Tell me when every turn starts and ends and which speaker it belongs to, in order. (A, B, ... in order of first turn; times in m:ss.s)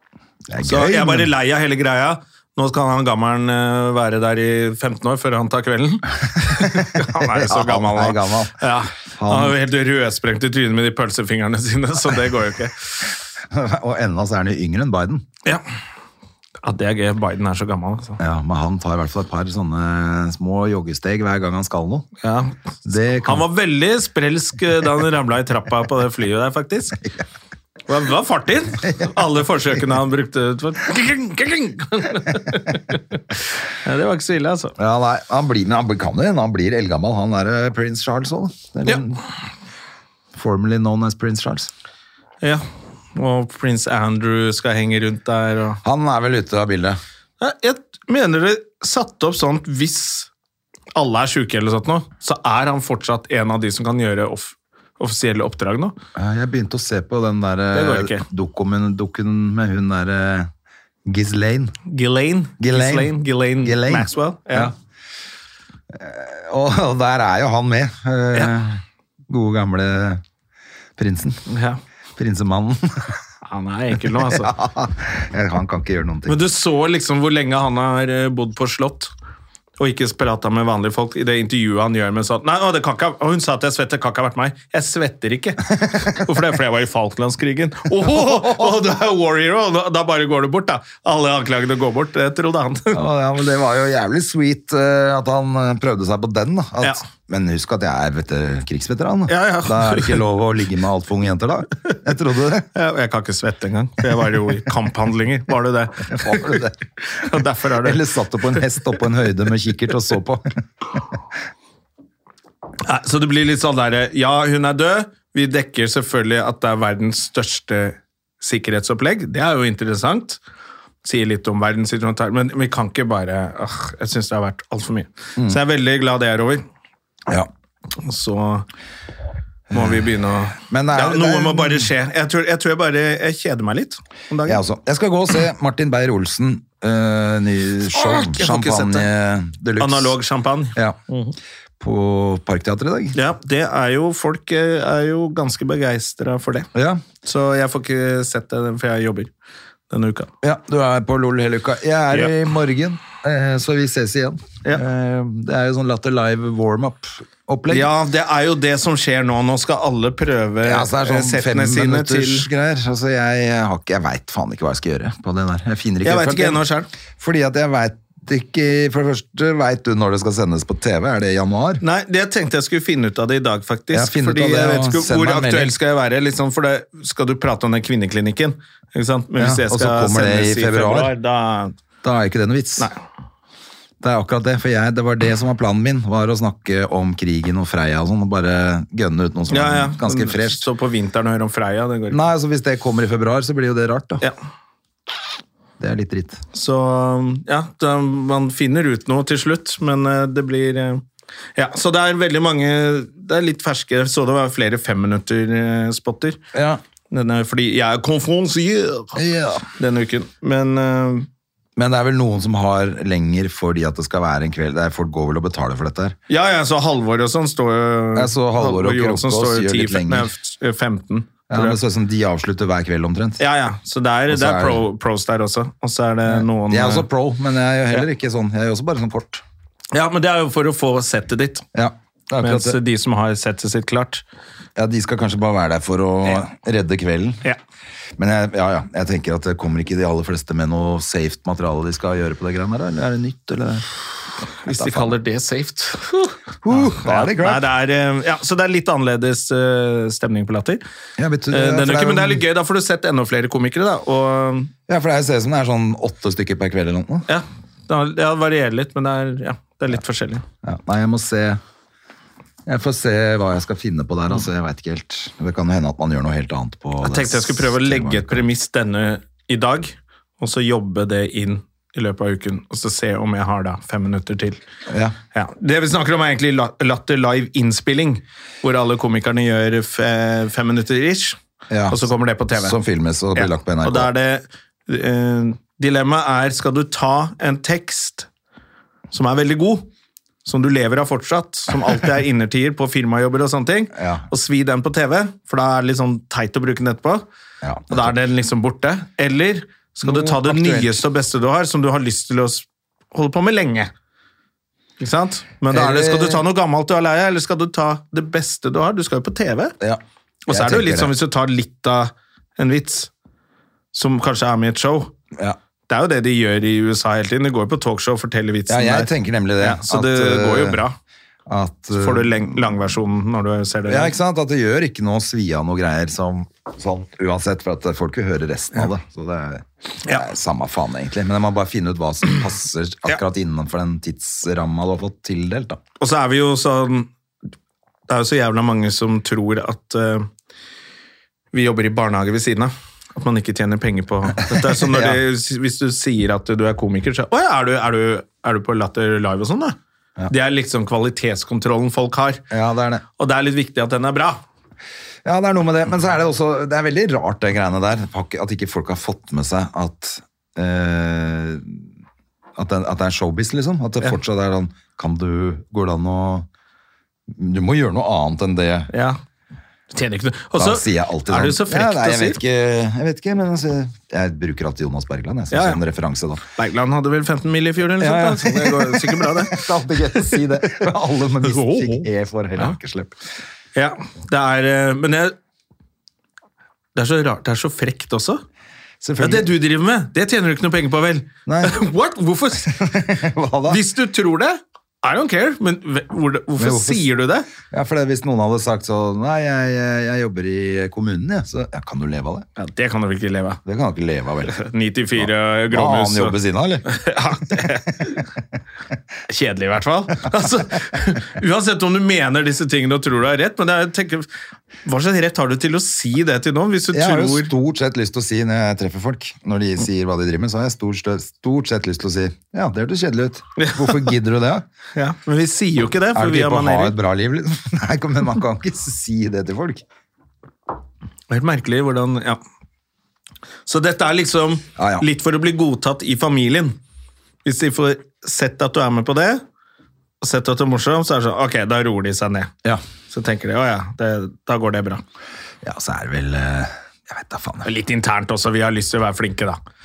0:00.5-0:01.3 A
0:00.6-0:12.9 B
0:06.5-0:08.6 A
0:09.2-0:09.6 A
0:13.5-0:15.3 A
0:16.6-0:18.2 B
0:18.2-0:22.1 A
0:22.2-0:27.0 B
0:22.9-0:23.5 A
0:27.9-0:34.7 B
0:34.8-0:39.2 A
0:40.4-0:41.7 A
0:43.2-0:45.8 B
0:45.8-0:47.0 A
0:47.4-0:50.3 B
0:51.0-0:56.0 B
0:56.2-1:00.5 A
0:57.7-0:58.2 B
1:01.1-1:01.8 A
1:01.9-1:04.7 B
1:02.6-1:04.7 A
1:05.9-1:10.2 A
1:11.0-1:11.5 A
1:11.5-1:11.8 B
1:12.2-1:13.2 A
1:13.5-1:14.5 B
1:14.0-1:16.4 A
1:16.3-1:19.1 B
1:19.8-1:33.0 B
1:25.8-1:26.2 A
1:28.0-1:28.7 A
1:32.9-1:42.7 A
1:39.3-1:40.2 B
1:42.7-1:48.0 B
1:46.1-1:46.8 A
1:47.8-1:50.6 A
1:52.8-2:00.4 B
2:01.0-2:06.6 B
2:08.0-2:08.7 B
2:09.7-2:10.0 A
2:09.7-2:14.6 B
2:10.6-2:11.9 A
2:14.5-2:20.2 A
2:17.9-2:19.1 B
2:19.8-2:21.4 B
2:21.8-2:23.2 A
2:23.1-2:26.7 B
2:26.7-2:27.0 A
2:27.2-2:29.3 B
2:29.9-2:30.3 B
2:30.4-2:37.9 A
2:37.7-2:42.5 B
2:40.6-2:46.6 A
2:46.0-2:46.9 B
2:47.2-2:51.8 A
2:51.8-3:01.8 B
2:53.9-2:55.7 A
2:59.4-3:01.1 A
3:02.0-3:02.9 A
3:04.0-3:10.6 A
3:09.5-3:12.2 B
3:12.1-3:14.3 A
3:15.8-3:16.4 A
3:16.5-3:26.4 B
3:26.5-3:26.8 A
3:27.1-3:29.2 B
3:29.2-3:29.6 A
3:29.8-3:31.3 B
3:31.8-3:36.2 A
3:36.3-3:41.8 B
3:38.2-3:40.3 A
3:41.5-3:43.4 A
3:43.4-3:47.1 B
3:44.3-3:44.8 A
3:46.3-3:49.4 A
3:49.9-3:51.6 B
3:51.7-3:52.8 A
3:52.4-3:54.2 B
3:54.8-3:57.4 A
3:58.2-4:05.2 A
4:04.6-4:10.8 B
4:06.6-4:07.6 A
4:11.2-4:12.4 A
4:11.5-4:14.7 B
4:14.9-4:17.3 A
4:17.3-4:20.4 B
4:20.6-4:21.6 A
4:22.7-4:28.4 A
4:27.0-4:34.6 B
4:34.9-4:35.2 A
4:35.3-4:41.4 B
4:41.7-4:44.1 A
4:41.9-4:42.8 B
4:43.4-4:48.3 B
4:49.1-4:49.9 B
4:50.4-4:57.2 B
4:54.0-4:54.3 A
4:57.6-4:58.2 A
4:57.9-5:03.9 B
5:00.0-5:01.0 A
5:05.0-5:09.8 B
5:05.7-5:06.4 A
5:09.8-5:11.1 A
5:10.5-5:13.1 B
5:13.9-5:15.1 B
5:15.9-5:21.0 B
5:18.7-5:20.8 A
5:21.5-5:22.8 A
5:21.9-5:24.2 B
5:23.9-5:35.8 A
5:36.0-5:37.1 B
5:38.1-5:40.3 B
5:41.5-5:49.8 B
5:44.5-5:45.2 A
5:50.3-5:52.4 B
5:52.5-5:53.0 A
5:53.2-5:54.4 B
5:55.2-6:01.8 A
6:02.6-6:06.5 A
6:07.3-6:08.9 A
6:08.9-6:09.2 B
6:09.9-6:12.4 B
6:10.6-6:16.4 A
6:15.5-6:15.8 B
6:16.6-6:19.7 B
6:18.0-6:23.2 A
6:21.4-6:22.8 B
6:23.8-6:25.4 B
6:27.0-6:28.4 B
6:29.0-6:29.5 A
6:29.2-6:32.8 B
6:31.5-6:31.8 A
6:32.6-6:33.8 A
6:33.7-6:37.5 B
6:36.6-6:37.1 A
6:37.6-6:42.5 A
6:42.6-6:43.6 B
6:43.6-6:44.6 A
6:44.5-6:48.2 B
6:45.2-6:46.9 A
6:49.3-6:54.3 B
6:54.8-6:57.5 B
6:56.9-7:04.6 A
7:03.6-7:04.1 B
7:05.0-7:07.0 B
7:06.1-7:09.8 A
7:11.3-7:12.4 B
7:13.7-7:16.8 B
7:14.8-7:15.1 A
7:17.4-7:19.4 B
7:20.2-7:22.5 B
7:23.1-7:25.0 B
7:25.6-7:27.7 A
7:27.6-7:29.6 B